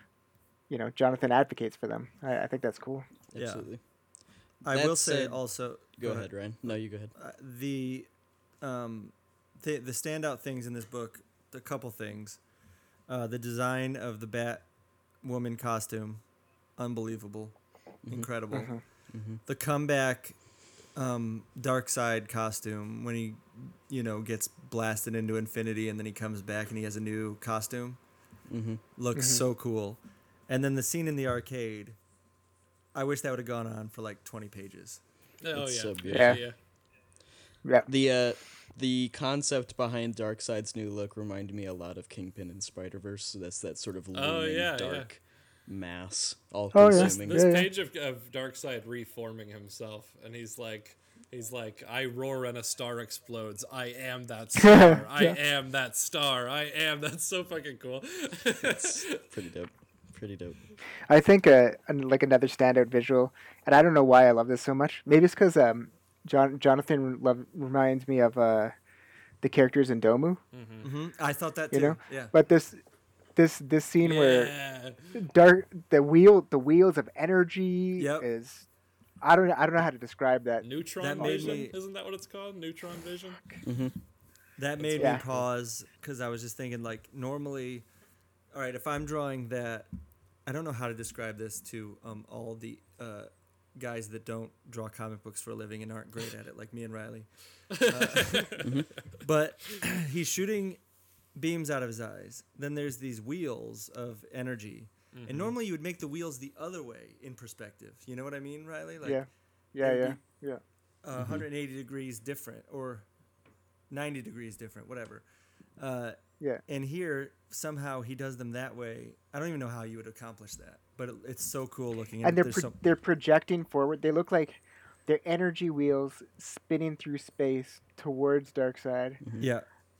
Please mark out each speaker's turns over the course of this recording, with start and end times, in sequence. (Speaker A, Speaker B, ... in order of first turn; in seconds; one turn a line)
Speaker A: 0.7-3.1
Speaker B: 3.3-3.8
Speaker C: 3.4-3.7
Speaker C: 4.6-8.1
Speaker B: 4.7-7.1
Speaker C: 8.6-12.4
Speaker C: 13.1-14.7
Speaker C: 15.2-16.2
Speaker C: 16.8-18.8
Speaker B: 18.0-19.4
Speaker A: 18.5-18.8
Speaker C: 19.4-28.0
Speaker B: 28.5-28.8
Speaker C: 28.9-32.0
Speaker A: 29.1-29.4
Speaker C: 32.9-35.0
Speaker D: 35.4-36.6
Speaker B: 35.5-36.5
Speaker A: 36.1-36.4
Speaker B: 37.9-47.4
Speaker D: 44.1-45.1
Speaker A: 46.7-47.7
Speaker D: 46.9-59.1
Speaker A: 54.6-55.4
Speaker B: 58.6-60.6
Speaker A: 61.1-68.8
Speaker A: 69.4-70.4
Speaker D: 70.5-70.9
Speaker C: 70.8-72.3
Speaker A: 71.7-72.8
Speaker A: 73.3-74.5
Speaker D: 74.0-75.1
Speaker A: 75.1-78.7
Speaker C: 78.0-78.3
Speaker A: 79.2-81.7
Speaker D: 80.6-83.5
Speaker C: 81.0-81.8
Speaker B: 83.6-84.0
Speaker C: 84.6-87.9
Speaker B: 84.8-85.4
Speaker A: 85.0-85.2
Speaker C: 88.5-89.9
Speaker C: 90.4-100.8
Speaker D: 97.8-98.7
Speaker B: 98.6-98.9
Speaker C: 101.3-109.3
Speaker D: 105.1-105.5
Speaker A: 109.0-110.6
Speaker C: 109.8-110.2
Speaker C: 111.0-113.1
Speaker B: 111.2-111.4
Speaker C: 113.9-115.2
Speaker C: 115.8-122.8
Speaker A: 122.2-129.2
Speaker B: 129.2-129.5
Speaker C: 129.4-129.7